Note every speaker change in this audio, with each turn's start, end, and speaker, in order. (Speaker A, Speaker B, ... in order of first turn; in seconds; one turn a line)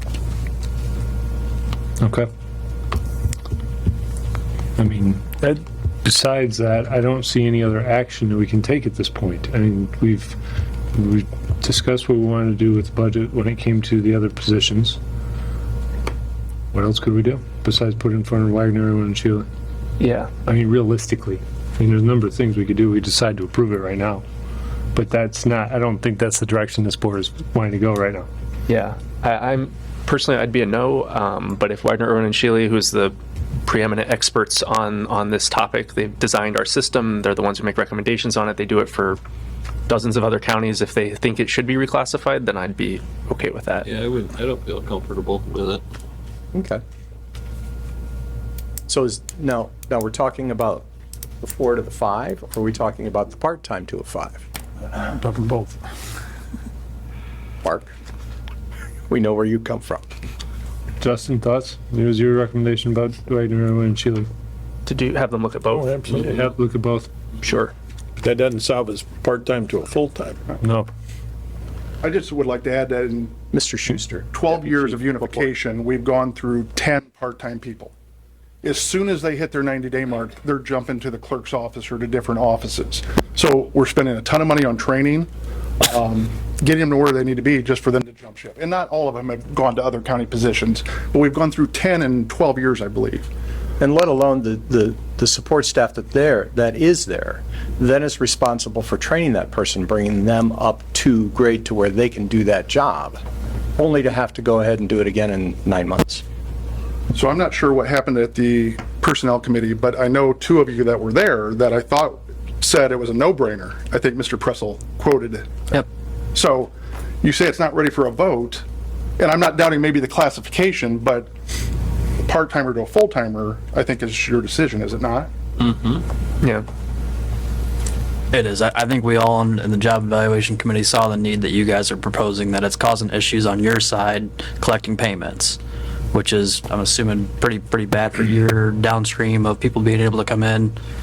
Speaker A: 2.0-2.3
Speaker A: 4.8-10.4
Speaker A: 10.9-15.0
Speaker A: 16.7-19.5
Speaker B: 20.0-20.3
Speaker A: 20.4-24.2
Speaker A: 24.9-28.3
Speaker B: 28.7-39.2
Speaker B: 39.9-43.9
Speaker C: 43.8-45.8
Speaker D: 46.5-46.8
Speaker D: 48.9-50.9
Speaker D: 51.4-54.5
Speaker D: 57.6-57.9
Speaker D: 59.1-60.1
Speaker A: 61.0-64.3
Speaker B: 64.9-66.1
Speaker A: 66.0-67.1
Speaker E: 67.4-70.4
Speaker A: 70.6-70.9
Speaker F: 72.0-73.4
Speaker D: 73.5-75.4
Speaker F: 74.3-77.9
Speaker F: 78.6-85.3
Speaker F: 85.8-93.3
Speaker D: 93.8-103.2
Speaker D: 103.8-106.2
Speaker F: 107.1-115.6
Speaker F: 116.3-118.6
Speaker F: 119.2-121.3
Speaker F: 122.2-125.3
Speaker G: 128.3-135.6
Speaker G: 136.1-140.8